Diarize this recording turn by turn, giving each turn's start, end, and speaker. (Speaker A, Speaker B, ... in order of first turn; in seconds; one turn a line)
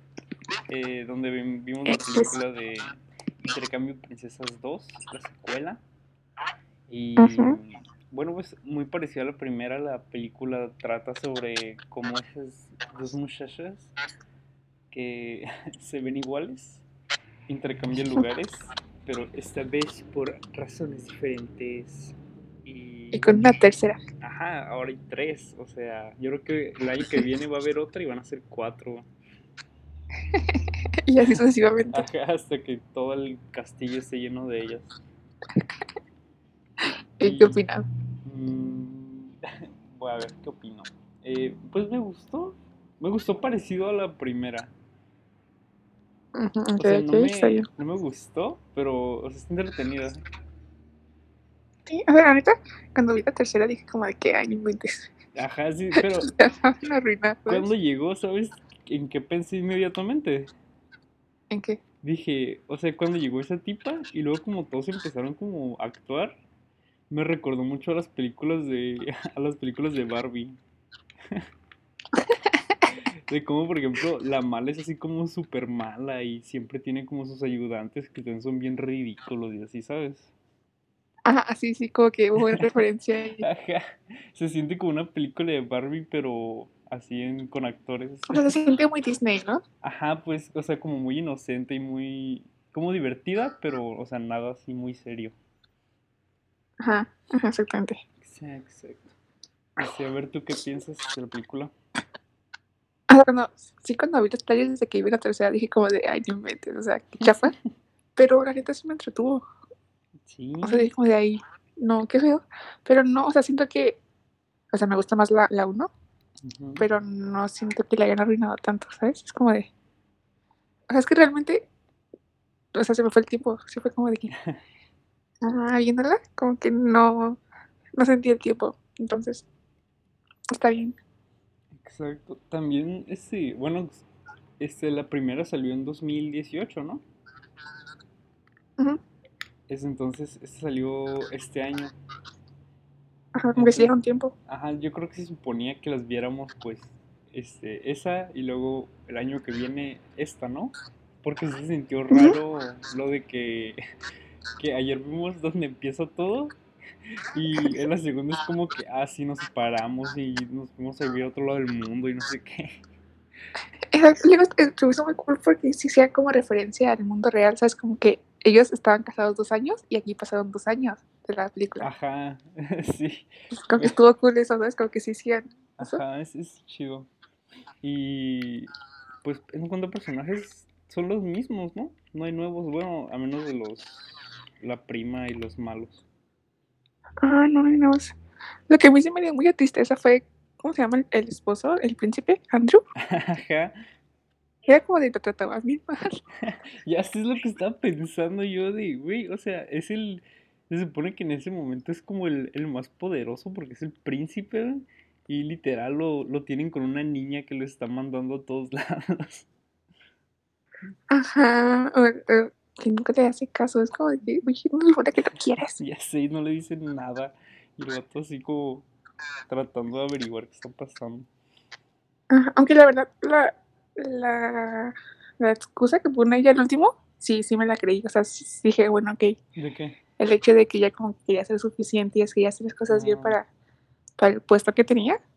Speaker A: 0.7-5.8
Speaker B: 1.9-2.3
Speaker A: 6.9-13.9
Speaker B: 7.2-7.6
Speaker A: 14.9-16.8
Speaker A: 17.5-23.4
Speaker B: 23.1-24.0
Speaker A: 24.2-29.1
Speaker B: 30.3-32.0
Speaker A: 31.9-34.9
Speaker B: 37.2-37.8
Speaker A: 37.2-37.6
Speaker A: 38.2-39.4
Speaker A: 39.9-44.7
Speaker B: 46.3-47.6
Speaker A: 46.8-50.2
Speaker B: 51.9-55.1
Speaker A: 55.4-56.3
Speaker B: 56.0-57.7
Speaker A: 57.5-60.5
Speaker B: 61.5-61.8
Speaker A: 62.0-66.4
Speaker A: 67.1-70.6
Speaker A: 73.3-80.3
Speaker B: 81.2-83.4
Speaker A: 82.4-82.8
Speaker A: 83.4-88.6
Speaker B: 88.3-89.6
Speaker A: 89.8-95.3
Speaker B: 96.8-98.0
Speaker A: 98.2-99.2
Speaker A: 99.8-101.7
Speaker B: 103.1-107.5
Speaker B: 108.2-109.4
Speaker A: 110.2-110.9
Speaker B: 110.6-114.0
Speaker B: 114.7-115.9
Speaker A: 116.4-116.9
Speaker B: 116.8-119.7
Speaker B: 120.9-121.7
Speaker B: 122.7-124.3
Speaker A: 124.3-124.6
Speaker B: 125.4-127.4
Speaker B: 128.0-129.4
Speaker B: 130.5-131.0
Speaker A: 131.8-134.1
Speaker A: 134.6-137.0
Speaker A: 139.7-141.9
Speaker B: 143.3-144.3
Speaker A: 143.6-143.9
Speaker A: 144.5-153.8
Speaker B: 152.1-152.4
Speaker A: 154.6-156.5
Speaker A: 157.3-162.8
Speaker B: 163.9-171.9
Speaker A: 171.8-174.0
Speaker B: 173.5-176.0
Speaker A: 175.8-177.1
Speaker A: 177.8-178.7
Speaker A: 179.2-183.9
Speaker A: 184.6-186.0
Speaker B: 187.2-188.1
Speaker B: 188.7-192.8
Speaker A: 193.1-193.7
Speaker B: 194.7-196.2
Speaker A: 196.4-209.5
Speaker B: 211.1-215.8
Speaker A: 215.8-218.9
Speaker A: 219.5-221.3
Speaker B: 222.3-229.4
Speaker A: 229.6-230.0
Speaker B: 230.2-233.4
Speaker A: 232.9-233.4
Speaker B: 234.2-235.2